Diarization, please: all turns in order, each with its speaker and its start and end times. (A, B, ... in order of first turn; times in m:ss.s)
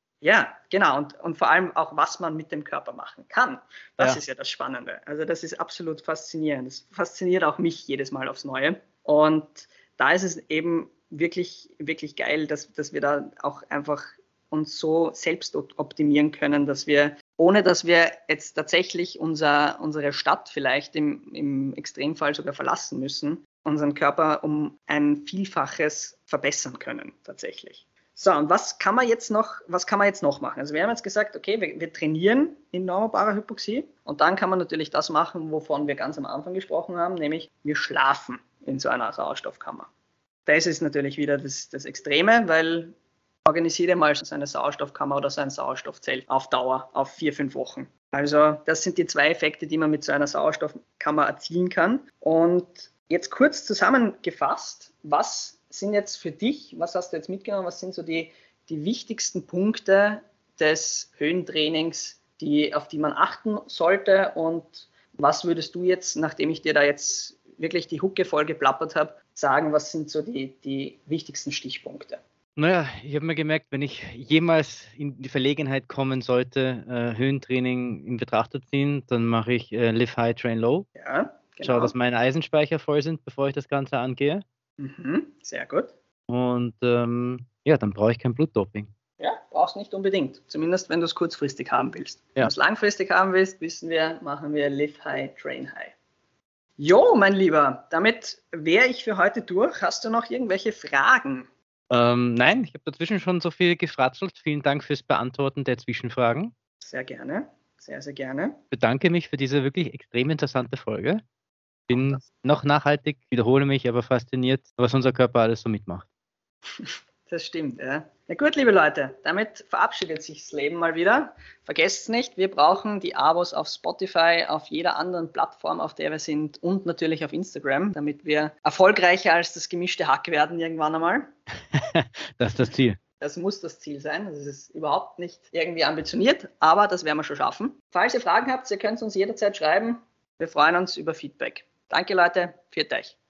0:00.2-0:39.9 A
0:40.5-0:42.9 A
0:43.4-1:12.2 A
1:12.6-1:20.9 B
1:21.0-1:21.9 A
1:21.6-1:24.4 B
1:24.8-1:25.9 A
1:26.3-1:28.9 B
1:29.2-1:36.0 A
1:36.8-1:41.5 A
1:41.9-1:46.5 B
1:46.8-1:48.6 A
1:48.7-1:51.2 B
1:51.9-1:56.0 B
1:51.9-1:52.2 A
1:56.7-2:11.3 A
2:11.7-2:13.0 B
2:13.2-2:23.2 A